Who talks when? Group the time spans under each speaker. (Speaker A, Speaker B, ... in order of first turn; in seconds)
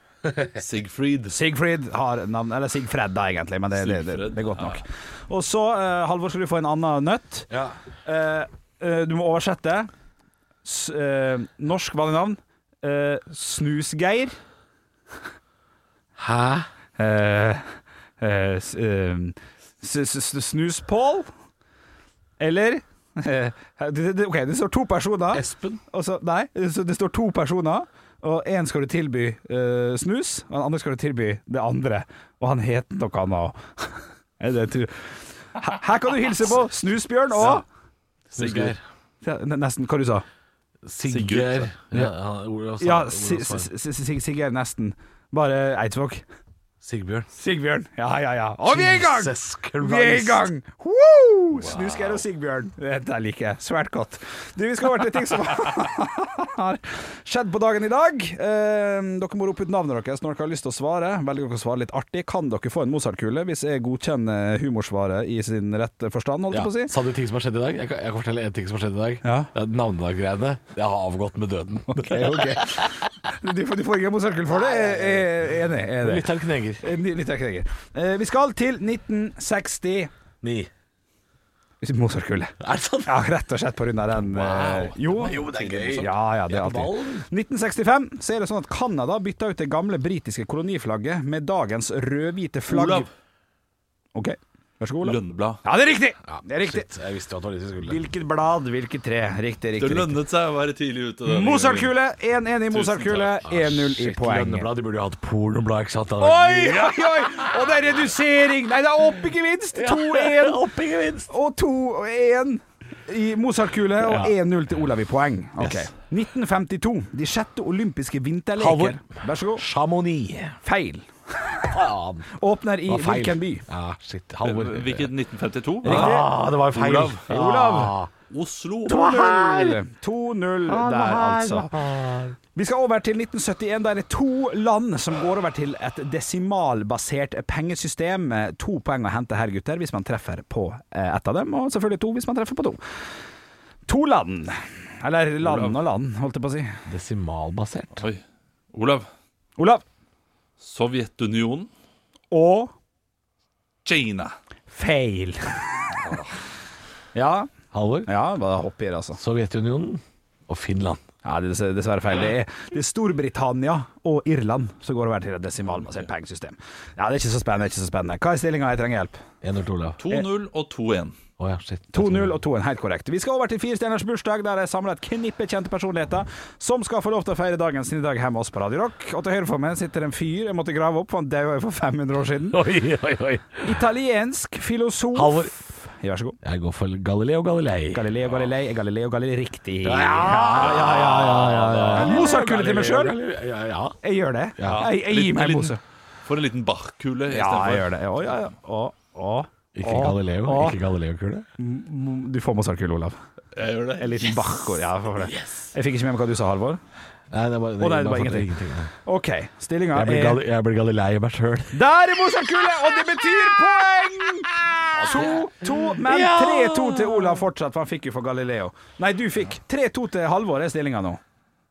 Speaker A: 0.6-1.3, 3.8-4.8, 38.4-38.7, 41.1-41.7, 51.7-52.0, 85.2-86.0, 92.7-93.1, 95.0-95.6, 99.8-101.9, 124.4-126.2, 126.7-127.2, 128.3-129.0, 145.4-145.7, 148.7-149.1, 150.6-151.7, 153.8-154.3, 156.0-156.3, 170.0-171.2, 194.6-198.0, 203.5-204.3
Speaker B: 1.3-7.5, 8.1-9.9, 10.6-14.3, 17.0-17.6, 18.2-21.3, 22.4-34.9, 35.6-37.6, 39.2-40.2, 42.8-46.2, 47.3-66.9, 69.2-69.5, 71.9-72.8, 73.4-76.2, 76.8-80.1, 81.8-93.1, 94.1-96.9, 97.8-100.2, 101.2-104.7, 106.2-110.6, 111.3-119.6, 120.6-121.7, 122.3-123.6, 125.8-126.3, 127.3-127.9, 128.9-131.7, 132.5-142.8, 143.9-146.8, 149.6-149.8, 152.3-152.7, 154.7-155.4, 157.1-157.5, 158.1-159.2, 161.2-169.2, 171.9-182.6, 183.6-186.4, 187.9-193.1, 194.0-195.8, 197.3-200.8, 201.6-203.2, 204.0-206.8, 207.8-208.5, 209.0-210.4, 211.7-221.2
Speaker C: 7.5-7.8, 16.2-16.7, 25.3-25.8, 38.3-38.8, 40.8-43.7, 46.8-47.3, 48.6-50.5, 66.5-72.8, 74.5-75.2, 76.0-76.8, 80.4-80.7, 82.6-83.1, 84.3-87.2, 96.3-98.0, 102.8-107.5, 109.8-111.3, 114.0-114.3, 115.6-115.9, 118.6-119.0, 119.5-120.5, 121.7-122.3, 122.9-125.1, 125.8-128.1, 128.9-129.8, 130.7-132.3, 146.9-148.0, 157.7-158.1, 159.2-161.0, 169.4-170.0, 171.4-172.3, 182.5-183.7, 185.1-185.5, 186.4-188.1, 189.8-194.0, 194.6-194.9, 199.8-201.5, 205.2-205.7, 207.3-208.9, 209.9-211.7, 214.9-217.4